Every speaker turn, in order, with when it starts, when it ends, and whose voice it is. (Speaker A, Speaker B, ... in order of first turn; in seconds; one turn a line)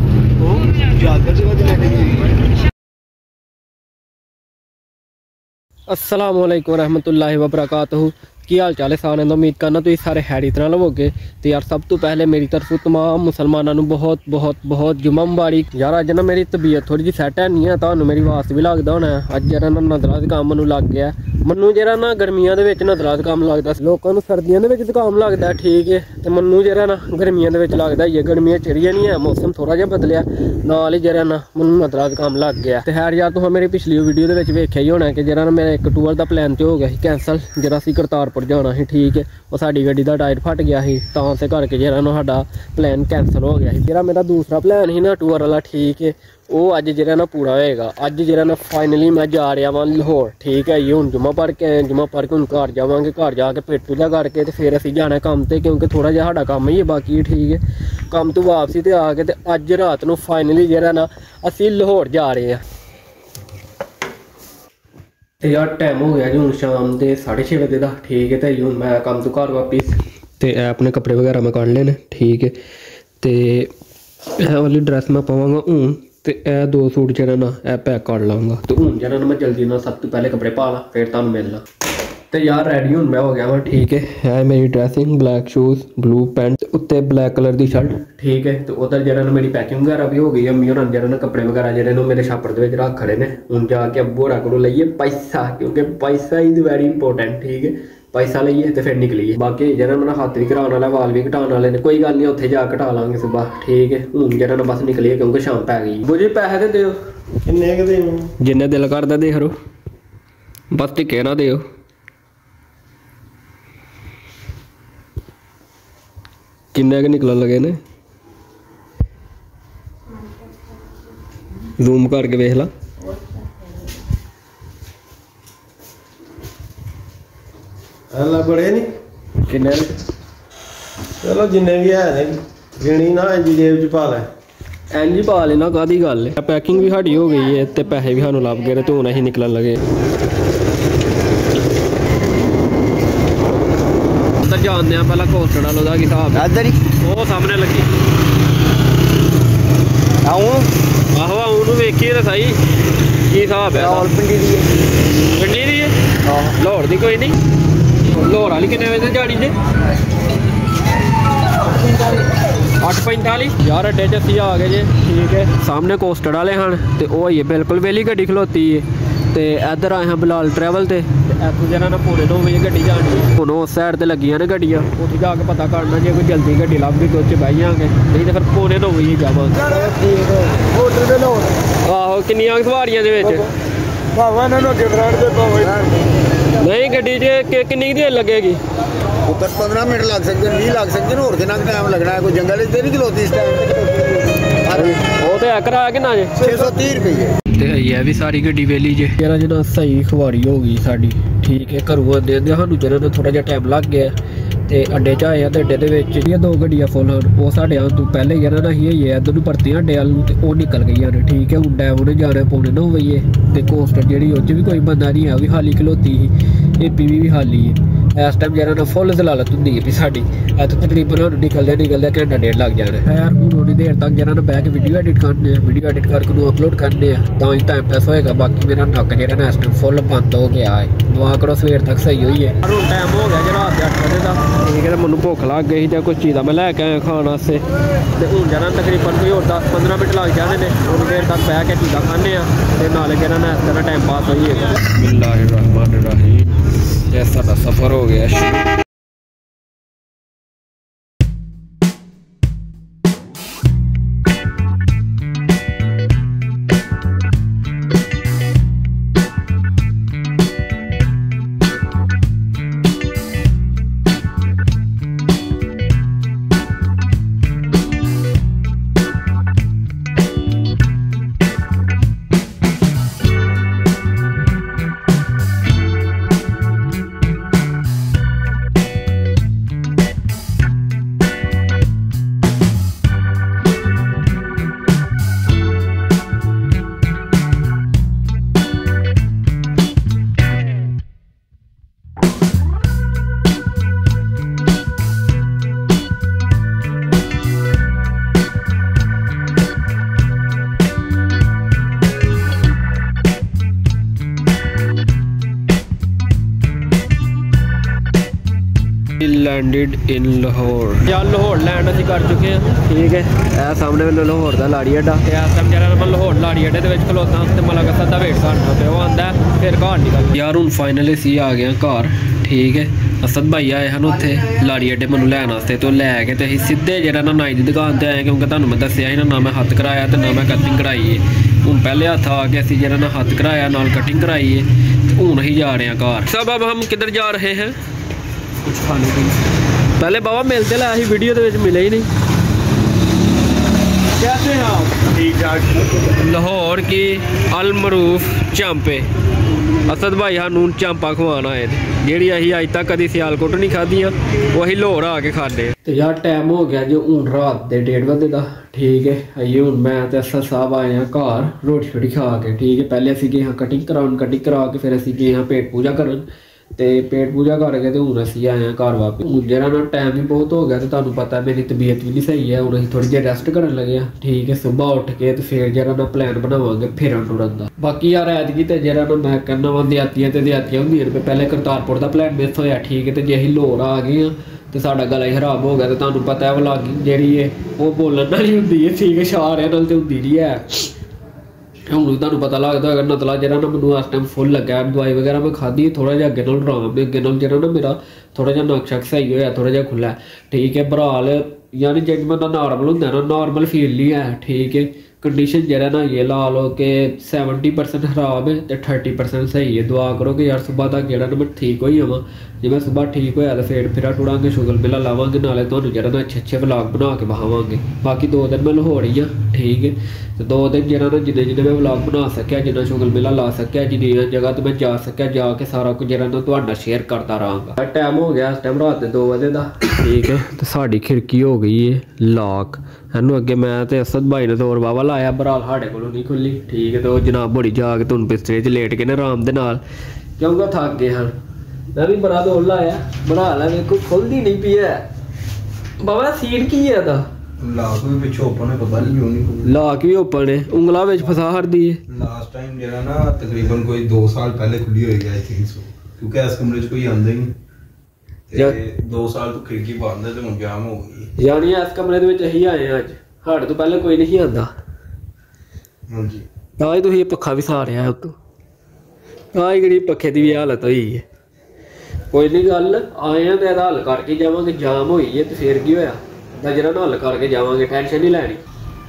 Speaker A: 1.4-1.9
Speaker B: 5.9-62.6
Speaker B: 65.4-72.6
Speaker B: 73.2-73.7
Speaker B: 74.3-81.7
Speaker B: 82.3-107.0
Speaker C: 107.5-108.3
Speaker B: 108.4-109.5
Speaker B: 110.7-111.7
Speaker B: 116.7-117.8
Speaker B: 121.6-122.7
Speaker C: 128.1-128.9
Speaker B: 129.4-130.0
Speaker C: 131.2-134.3
Speaker B: 134.9-139.8
Speaker B: 144.3-147.9
Speaker A: 146.3-146.8
Speaker A: 150.2-150.7
Speaker B: 151.0-152.6
Speaker B: 153.2-154.1
Speaker A: 153.8-154.7
Speaker B: 155.3-157.4
Speaker B: 158.0-159.6
Speaker B: 161.6-179.9
Speaker C: 180.0-181.5
Speaker B: 181.8-183.5
Speaker C: 184.1-185.9
Speaker B: 186.5-188.6
Speaker A: 189.2-194.9
Speaker B: 194.7-196.6
Speaker A: 196.4-197.4
Speaker B: 197.5-248.7
Speaker B: 309.2-337.8
Speaker B: 338.6-339.4
Speaker B: 339.9-342.1
Speaker B: 344.1-349.1
Speaker B: 349.9-390.9
Speaker B: 391.9-439.8
Speaker B: 440.4-441.3
Speaker B: 441.9-445.1
Speaker B: 446.0-447.3
Speaker D: 447.6-449.7
Speaker B: 449.6-452.0
Speaker D: 452.1-457.5
Speaker D: 458.5-461.3
Speaker B: 458.5-458.8
Speaker B: 461.4-464.7
Speaker D: 466.1-466.5
Speaker B: 466.8-468.4
Speaker B: 469.5-471.2
Speaker B: 472.3-478.6